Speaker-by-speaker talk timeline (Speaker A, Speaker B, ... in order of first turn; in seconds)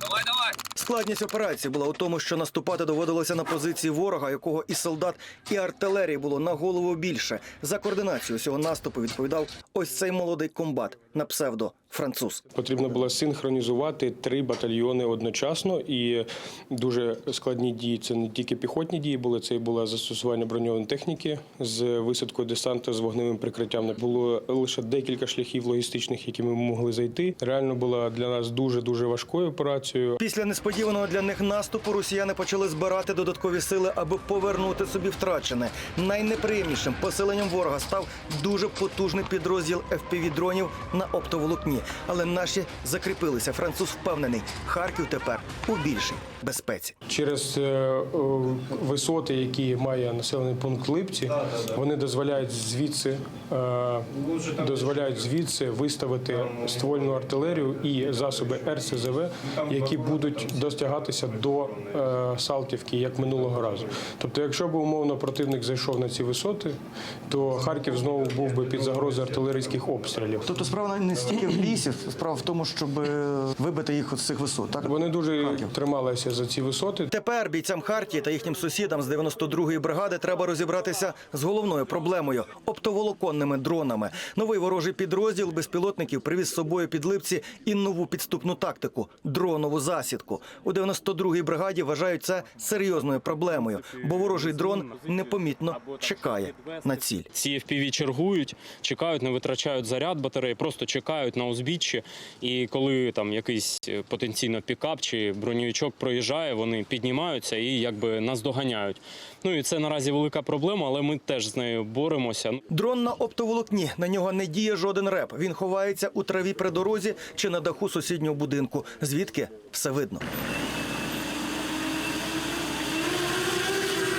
Speaker A: 0.7-12.4, 30.2-47.0, 70.5-75.7, 77.1-97.3, 112.7-120.2
Speaker B: 12.5-30.2, 47.1-66.8, 67.3-70.5, 74.8-77.1
Speaker C: 97.3-112.6